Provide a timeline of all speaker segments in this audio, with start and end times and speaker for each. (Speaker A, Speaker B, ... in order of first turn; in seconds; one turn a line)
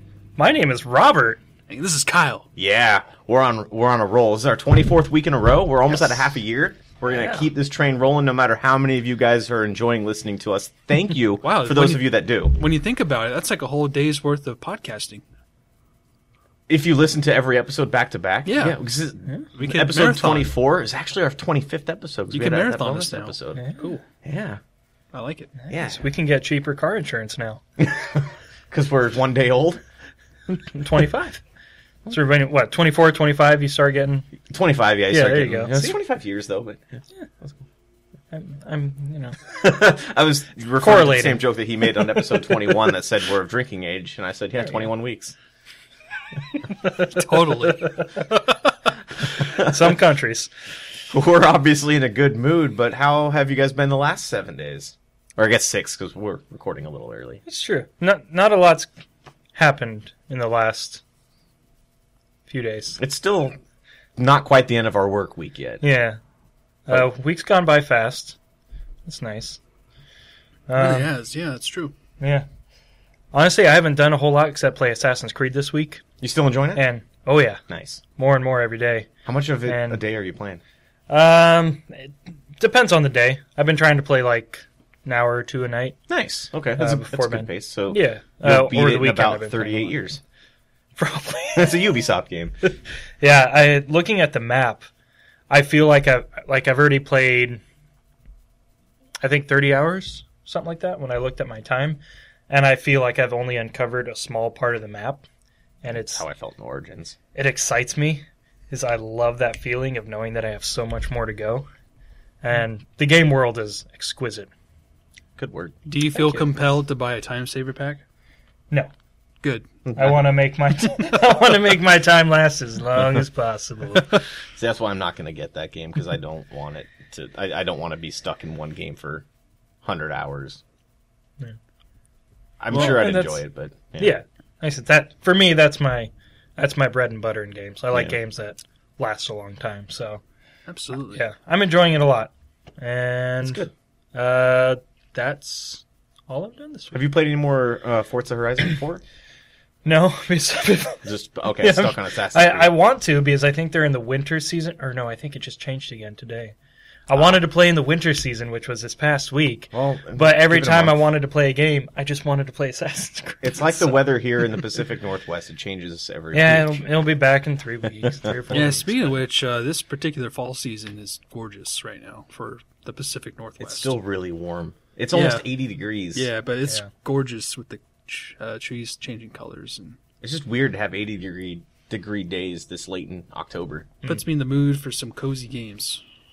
Speaker A: 0.4-1.4
Speaker B: 1.7-2.5
Speaker C: 2.6-12.6
Speaker A: 7.1-7.5
Speaker B: 11.4-15.2
Speaker C: 16.7-23.6
Speaker B: 18.5-18.8
Speaker B: 19.6-20.5
Speaker B: 22.3-24.0
Speaker A: 23.6-24.0
Speaker C: 24.2-24.6
Speaker B: 25.1-25.6
Speaker A: 25.6-27.6
Speaker C: 25.7-26.0
Speaker C: 27.8-29.8
Speaker A: 30.7-31.4
Speaker A: 32.1-34.3
Speaker C: 34.5-37.6
Speaker A: 35.1-36.0
Speaker A: 38.3-39.4
Speaker C: 39.5-45.4
Speaker A: 40.8-41.4
Speaker A: 46.7-48.5
Speaker B: 47.2-48.0
Speaker A: 49.2-50.5
Speaker C: 49.4-50.0
Speaker C: 51.1-57.4
Speaker A: 57.5-58.9
Speaker A: 59.5-61.0
Speaker A: 62.5-63.0
Speaker C: 63.0-63.6
Speaker C: 64.2-65.8
Speaker A: 65.8-66.2
Speaker A: 66.9-68.4
Speaker A: 69.1-69.6
Speaker A: 70.7-71.1
Speaker B: 70.8-71.9
Speaker A: 72.2-72.5
Speaker A: 73.3-76.0
Speaker C: 76.2-76.8
Speaker A: 76.8-77.6
Speaker C: 77.7-78.0
Speaker A: 78.2-79.1
Speaker C: 79.3-80.6
Speaker A: 79.7-80.0
Speaker A: 81.1-86.0
Speaker C: 86.1-90.2
Speaker A: 86.8-90.0
Speaker A: 91.0-91.8
Speaker C: 91.6-92.6
Speaker A: 93.2-94.9
Speaker A: 95.5-97.6
Speaker A: 99.2-105.2
Speaker A: 105.8-106.3
Speaker C: 106.0-107.2
Speaker A: 107.3-111.7
Speaker A: 112.4-114.5
Speaker C: 115.4-116.5
Speaker B: 115.9-118.0
Speaker C: 119.9-120.2
Speaker A: 120.0-124.2
Speaker C: 124.6-129.2
Speaker C: 129.8-130.6
Speaker C: 132.6-134.2
Speaker B: 132.7-133.1
Speaker A: 132.7-133.4
Speaker A: 134.0-140.2
Speaker C: 137.9-138.2
Speaker B: 140.7-141.2
Speaker A: 141.1-147.0
Speaker C: 143.4-143.7
Speaker C: 146.9-149.0
Speaker A: 149.8-156.6
Speaker C: 151.0-152.7
Speaker A: 157.1-164.0
Speaker C: 157.2-157.4
Speaker C: 159.7-161.1
Speaker C: 163.4-166.9
Speaker A: 166.3-168.9
Speaker C: 168.1-168.8
Speaker B: 168.5-173.9
Speaker C: 173.6-176.3
Speaker B: 175.1-175.5
Speaker B: 176.1-180.0
Speaker C: 180.2-183.9
Speaker B: 184.1-186.0